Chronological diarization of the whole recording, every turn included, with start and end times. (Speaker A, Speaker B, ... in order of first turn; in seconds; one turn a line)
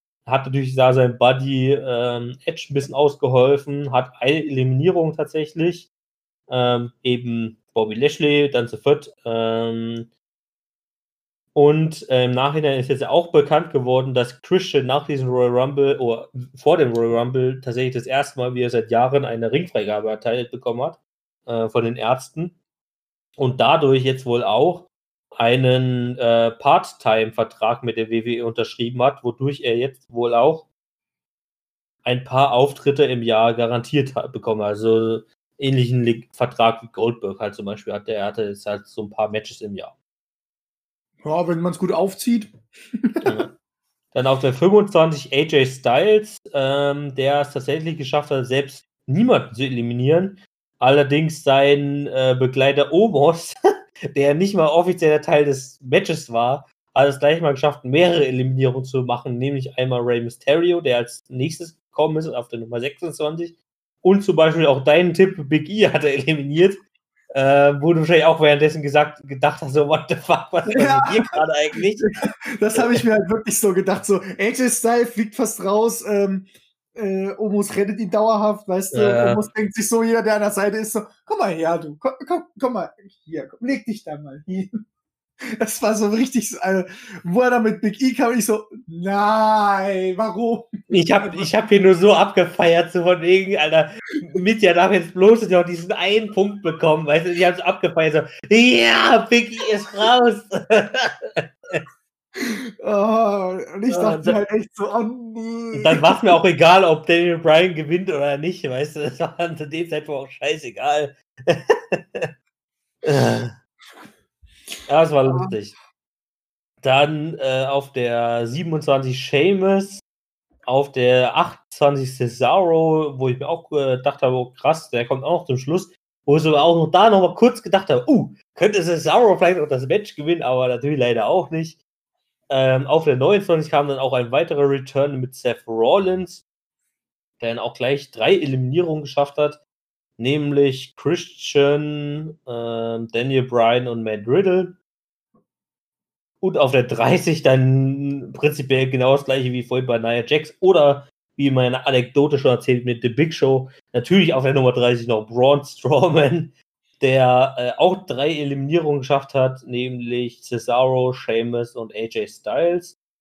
Speaker A: 0.2-5.9
Speaker A: 6.5-10.1
Speaker A: 11.5-22.6
Speaker A: 23.4-30.7
Speaker A: 32.0-40.0
Speaker B: 41.2-43.3
Speaker A: 43.2-43.5
Speaker A: 44.1-53.5
Speaker A: 54.1-66.8
Speaker A: 67.3-72.1
Speaker B: 70.7-71.2
Speaker B: 72.0-84.7
Speaker A: 72.7-73.0
Speaker A: 78.9-79.4
Speaker B: 85.5-91.5
Speaker A: 90.9-101.8
Speaker B: 102.3-106.2
Speaker A: 103.9-104.4
Speaker A: 105.7-112.3
Speaker A: 113.0-113.5
Speaker A: 114.9-115.8
Speaker B: 115.3-115.5
Speaker A: 116.8-120.0
Speaker A: 120.7-131.8
Speaker A: 132.5-136.4
Speaker A: 137.4-139.6
Speaker A: 140.2-144.8
Speaker A: 146.4-162.9